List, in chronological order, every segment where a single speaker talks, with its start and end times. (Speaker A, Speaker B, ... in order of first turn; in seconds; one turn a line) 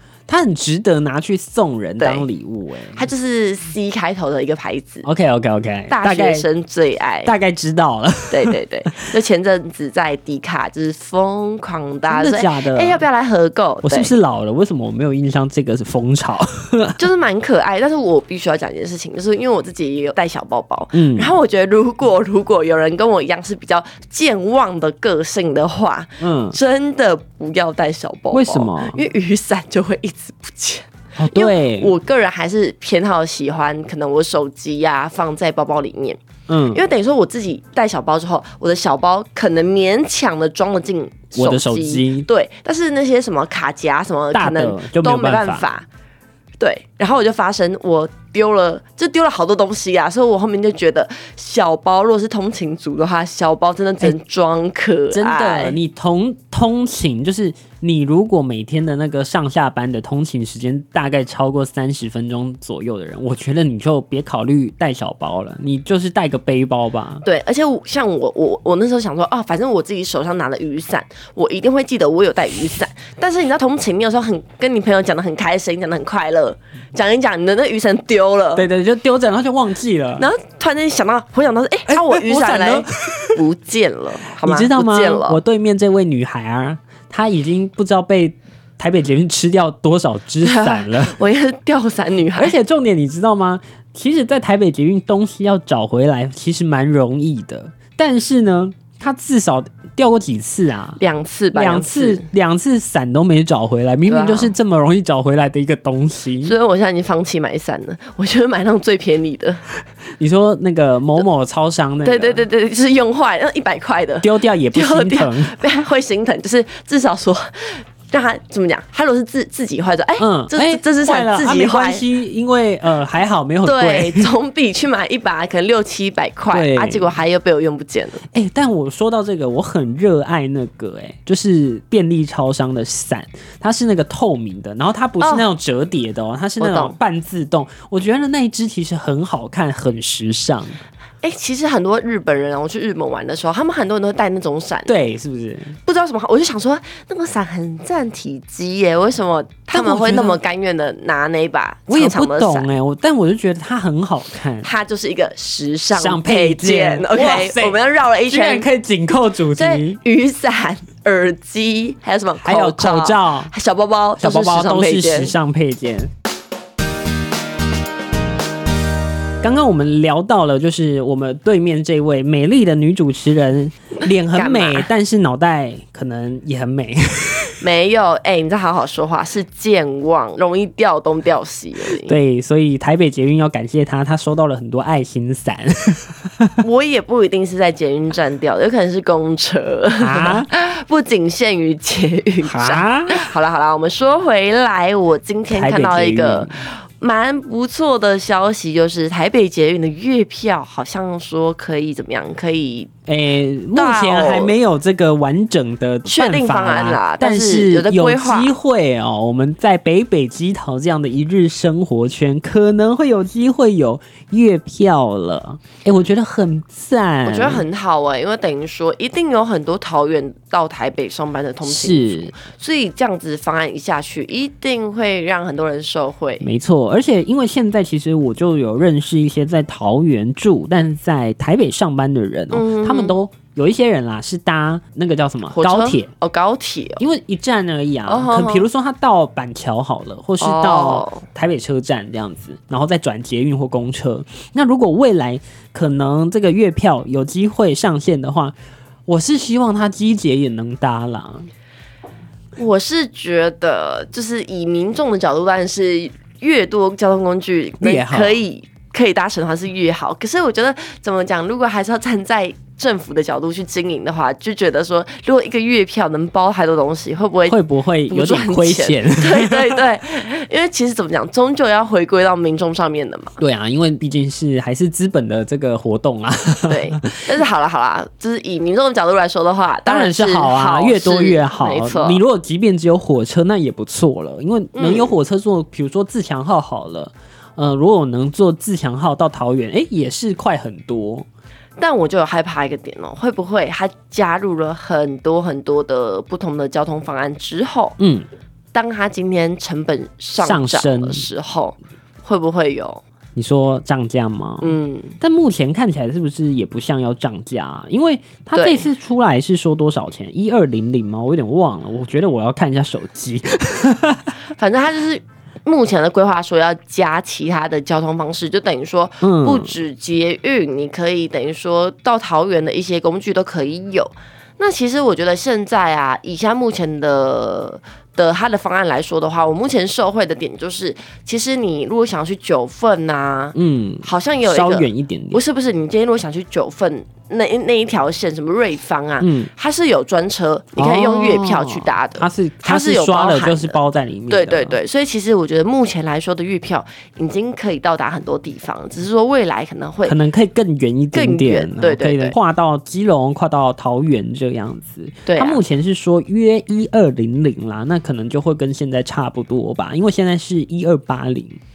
Speaker A: 0.3-3.1
Speaker B: 2.0-2.2
Speaker B: 2.9-5.1
Speaker A: 5.0-6.5
Speaker B: 5.9-7.3
Speaker A: 7.2-9.0
Speaker B: 8.3-14.1
Speaker A: 12.1-13.0
Speaker A: 13.8-17.0
Speaker B: 17.0-36.2
Speaker A: 20.9-21.4
Speaker A: 26.2-26.6
Speaker A: 28.3-29.0
Speaker A: 31.2-31.9
Speaker A: 36.5-36.8
Speaker B: 36.7-45.9
Speaker A: 41.4-42.3
Speaker A: 44.3-45.7
Speaker B: 46.6-55.8
Speaker A: 55.1-67.2
Speaker B: 67.2-78.7
Speaker A: 78.5-80.3
Speaker B: 80.2-85.4
Speaker A: 81.9-83.4
Speaker A: 84.4-91.2
Speaker B: 90.4-92.5
Speaker A: 92.4-101.0
Speaker B: 101.0-102.3
Speaker A: 101.5-106.5
Speaker B: 104.1-104.5
Speaker B: 106.4-109.6
Speaker A: 110.2-112.5
Speaker B: 112.0-122.0
Speaker A: 114.2-115.5
Speaker A: 120.2-124.3
Speaker B: 123.6-128.2
Speaker A: 126.5-127.2
Speaker A: 128.3-140.8
Speaker B: 135.2-135.5
Speaker B: 136.6-136.9
Speaker B: 141.2-145.0
Speaker A: 144.9-145.8
Speaker B: 145.9-152.7
Speaker A: 149.7-150.4
Speaker A: 151.9-154.7
Speaker B: 154.6-158.7
Speaker A: 155.9-160.0
Speaker B: 159.6-165.3
Speaker A: 162.4-163.5
Speaker A: 164.2-166.1
Speaker A: 169.4-177.5
Speaker B: 174.3-174.9
Speaker B: 177.6-182.1
Speaker A: 182.0-186.6
Speaker B: 186.6-202.9
Speaker A: 189.9-190.5
Speaker A: 192.4-193.3
Speaker A: 195.5-196.5
Speaker A: 203.1-217.6
Speaker B: 203.8-204.5
Speaker B: 206.1-208.5
Speaker B: 217.2-226.5
Speaker A: 221.6-222.3
Speaker A: 226.4-236.1
Speaker B: 232.5-233.1
Speaker B: 235.5-237.0
Speaker A: 237.0-248.5
Speaker B: 238.1-238.7
Speaker B: 240.4-241.2
Speaker A: 249.1-251.5
Speaker B: 252.6-273.4
Speaker A: 257.8-258.4
Speaker A: 267.5-269.8
Speaker A: 273.4-277.3
Speaker B: 276.7-282.2
Speaker A: 279.9-291.2
Speaker B: 284.8-285.1
Speaker B: 291.8-298.0
Speaker A: 298.0-298.3
Speaker B: 298.7-303.0
Speaker A: 300.4-301.2
Speaker A: 303.4-314.3
Speaker B: 304.6-305.2
Speaker B: 308.5-308.9
Speaker B: 314.6-343.8
Speaker A: 319.2-319.8
Speaker A: 333.5-335.4
Speaker A: 339.2-339.5
Speaker A: 340.8-344.8
Speaker B: 344.3-350.1
Speaker A: 350.1-361.6
Speaker B: 351.1-352.4
Speaker B: 355.2-355.6